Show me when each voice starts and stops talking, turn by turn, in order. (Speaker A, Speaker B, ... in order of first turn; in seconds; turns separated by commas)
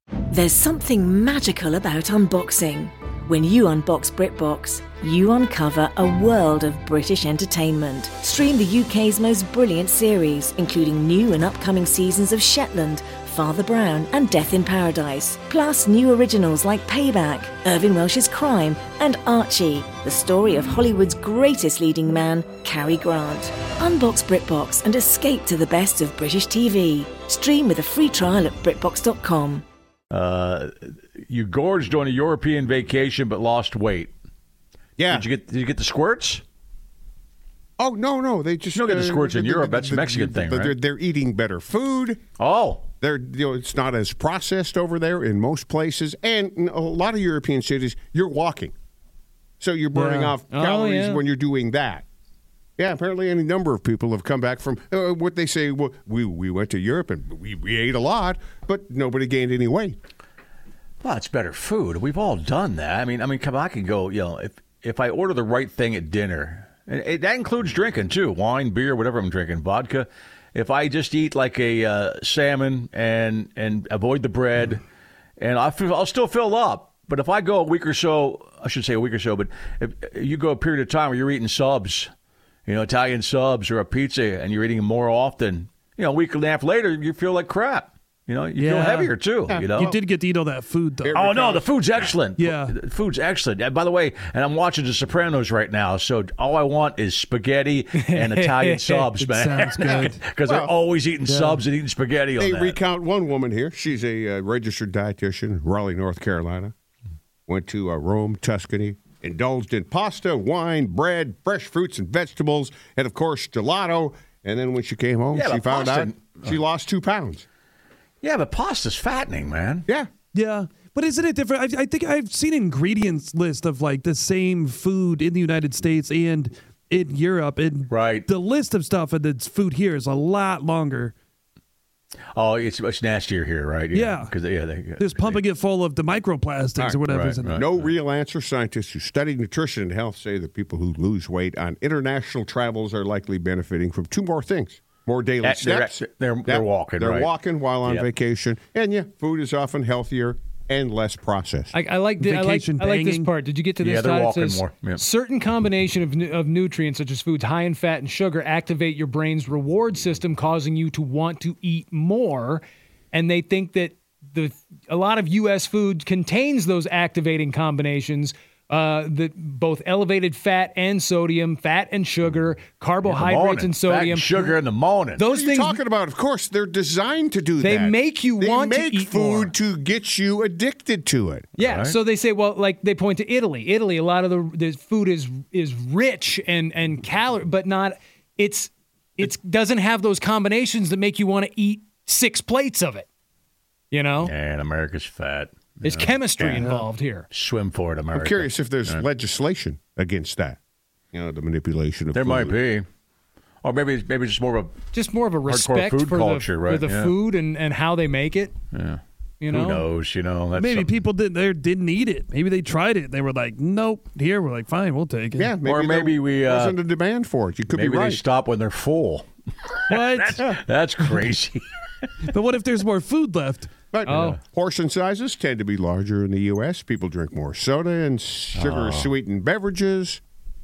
Speaker A: 0.3-29.6, Speaker B: 30.1-34.1, Speaker C: 35.0-35.3, Speaker B: 35.1-36.4, Speaker C: 37.8-42.2, Speaker B: 38.7-40.8, Speaker B: 42.4-42.9, Speaker C: 43.0-48.7, Speaker C: 49.6-52.0, Speaker D: 49.9-51.2, Speaker C: 52.8-60.0, Speaker B: 61.0-74.8, Speaker B: 75.4-82.1, Speaker B: 82.7-90.0, Speaker E: 88.6-89.1, Speaker C: 89.5-90.0, Speaker E: 89.9-91.1, Speaker C: 91.0-92.1, Speaker B: 91.1-102.8, Speaker E: 92.4-92.7, Speaker D: 98.0-99.1, Speaker E: 99.3-100.2, Speaker C: 100.5-100.7, Speaker E: 101.2-101.6, Speaker C: 102.4-106.7, Speaker C: 107.5-117.4, Speaker B: 115.3-116.6, Speaker B: 118.2-119.9, Speaker E: 120.4-131.1, Speaker B: 127.9-128.3, Speaker B: 132.3-135.4, Speaker E: 133.9-134.3, Speaker E: 135.0-137.5, Speaker C: 136.8-151.7, Speaker B: 137.0-137.9, Speaker B: 145.4-147.3, Speaker D: 151.7-174.6, Speaker E: 152.2-153.2, Speaker B: 153.8-155.0, Speaker B: 173.1-175.2, Speaker D: 175.2-175.8, Speaker C: 175.3-181.5, Speaker D: 177.6-179.5, Speaker D: 181.6-193.1, Speaker B: 181.6-181.9, Speaker D: 193.9-194.3, Speaker B: 194.2-196.1, Speaker D: 195.8-197.3, Speaker C: 196.4-196.7, Speaker B: 197.3-199.0, Speaker C: 198.1-200.6, Speaker C: 201.1-202.6, Speaker B: 202.1-202.9, Speaker B: 203.6-204.8, Speaker D: 204.9-208.5, Speaker B: 205.4-207.1, Speaker B: 208.7-210.9, Speaker D: 209.4-209.9, Speaker E: 210.6-215.5, Speaker C: 215.3-218.2, Speaker B: 215.6-216.8, Speaker B: 217.7-221.6, Speaker E: 219.9-220.3, Speaker E: 222.3-223.7, Speaker C: 223.9-230.2, Speaker D: 224.1-224.4, Speaker B: 228.5-229.1